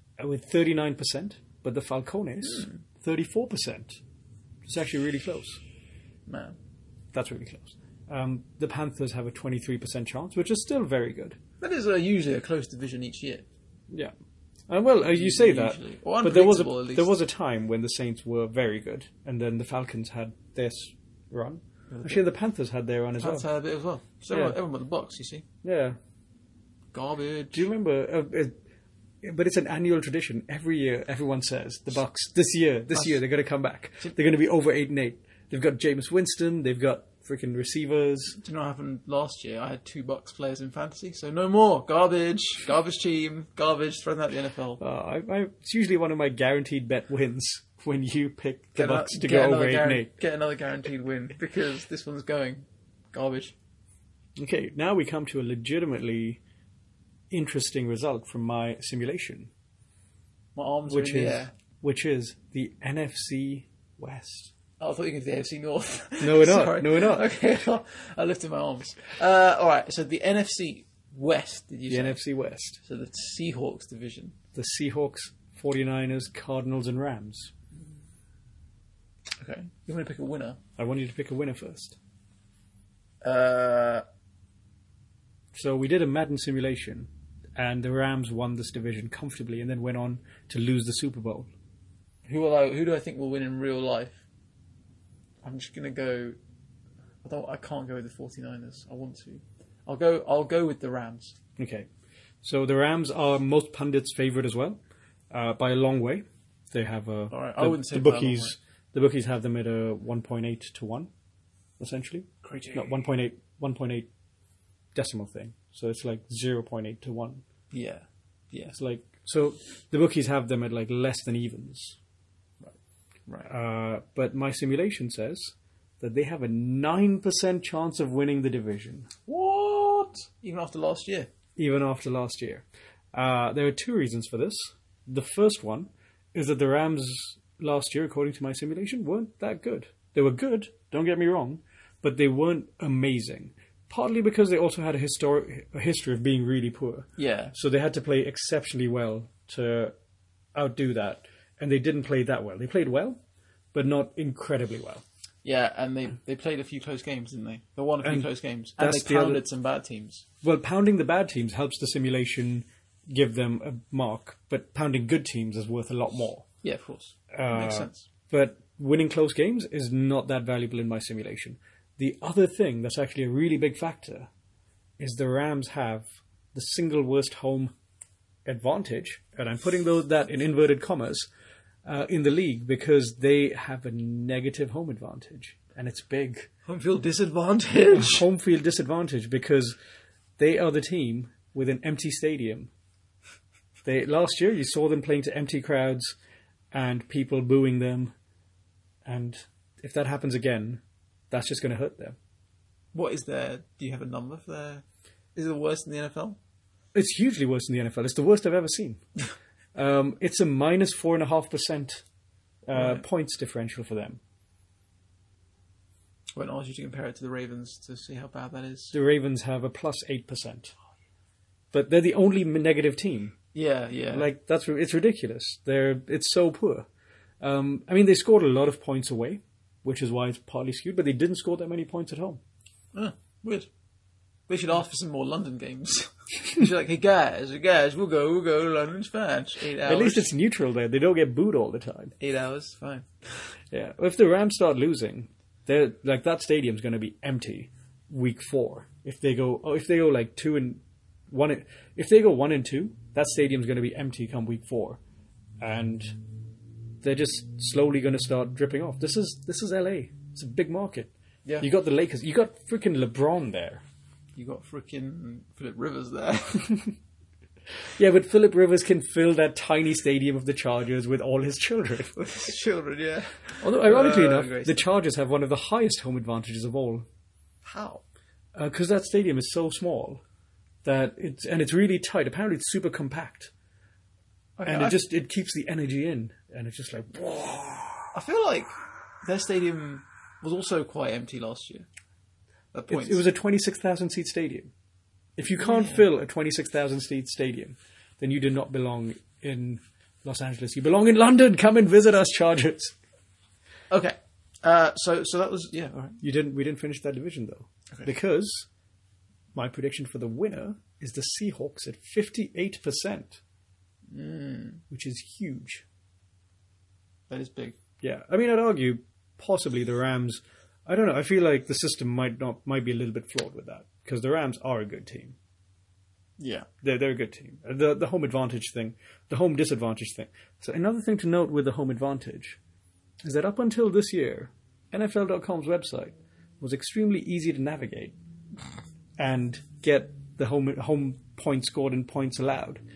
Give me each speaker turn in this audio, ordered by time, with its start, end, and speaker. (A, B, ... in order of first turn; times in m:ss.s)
0:00.2-0:04.0 A
0:02.4-0:02.8 B
0:04.6-0:05.6 A
0:06.3-0:06.6 B
0:07.1-0:11.4 A
0:11.6-0:13.5 B
0:14.7-0:23.5 A
0:15.0-0:17.1 B
0:21.9-0:22.2 B
0:23.2-0:25.4 B
0:25.6-0:26.0 A
0:26.9-0:27.7 B
0:27.5-0:28.6 A
0:29.2-0:38.4 A
0:38.4-0:44.8 B
0:44.8-0:50.1 A
0:48.8-0:53.6 B
0:54.4-0:56.4 A
0:57.3-0:59.5 A
1:00.6-1:01.5 B
1:00.9-1:04.5 A
1:04.8-1:12.2 B
1:06.2-1:07.3 A
1:11.9-1:12.8 A
1:12.8-1:14.4 B
1:14.6-1:17.5 A
1:19.4-1:20.6 B
1:20.8-1:22.0 A
1:23.2-1:24.0 B
1:25.5-1:31.5 A
1:32.3-1:34.2 B
1:35.4-1:36.4 B
1:37.2-1:41.4 B
1:41.6-1:41.9 A
1:42.4-1:44.8 A
1:45.3-1:51.1 A
1:47.3-1:48.6 B
1:51.8-1:54.1 A
1:52.4-1:52.9 B
1:55.0-1:57.4 A
1:57.7-1:58.8 B
1:58.7-2:02.0 A
2:03.5-2:09.1 A
2:09.3-2:11.3 B
2:11.6-2:30.0 A
2:27.2-2:27.6 B
2:30.6-2:33.2 A
2:33.7-2:35.0 A
2:35.4-2:40.2 B
2:38.0-2:39.4 A
2:40.4-2:46.5 A
2:46.6-2:48.0 B
2:47.3-2:54.3 A
2:55.0-2:57.7 A
2:58.5-3:01.3 A
3:01.8-3:06.5 A
3:06.7-3:08.3 B
3:07.9-3:09.8 A
3:10.4-3:12.7 A
3:13.8-3:16.2 A
3:16.7-3:18.1 A
3:19.0-3:22.2 A
3:22.9-3:24.8 B
3:25.4-3:26.4 B
3:26.9-3:29.0 A
3:29.8-3:32.0 A
3:32.7-3:34.2 A
3:32.7-3:33.0 B
3:36.4-3:38.9 B
3:38.9-3:40.7 A
3:41.7-3:43.4 A
3:43.5-3:44.3 B
3:44.1-3:46.9 A
3:47.4-3:52.4 A
3:52.9-3:53.7 B
3:54.5-4:00.3 B
3:59.8-4:02.1 A
4:02.2-4:03.1 B
4:03.7-4:15.0 A
4:15.6-4:16.2 A
4:17.0-4:23.8 A
4:24.4-4:26.8 B
4:27.8-4:32.2 A
4:32.2-4:34.8 B
4:33.6-4:37.1 A
4:37.6-4:38.1 B
4:38.6-4:40.2 A
4:40.8-4:43.5 A
4:44.6-4:45.0 B
4:44.7-4:48.1 A
4:48.1-4:48.7 B
4:49.2-4:51.9 B
4:52.7-4:53.2 B
4:52.9-4:54.7 A
4:55.4-5:03.0 A
4:55.5-4:56.0 B
5:03.9-5:06.2 B
5:06.2-5:08.7 A
5:09.6-5:13.4 A
5:14.1-5:14.8 B
5:14.9-5:15.8 A
5:17.3-5:17.8 B
5:18.0-5:25.4 A
5:26.4-5:26.7 B
5:26.8-5:32.6 A
5:33.2-5:38.2 A
5:39.2-5:42.8 A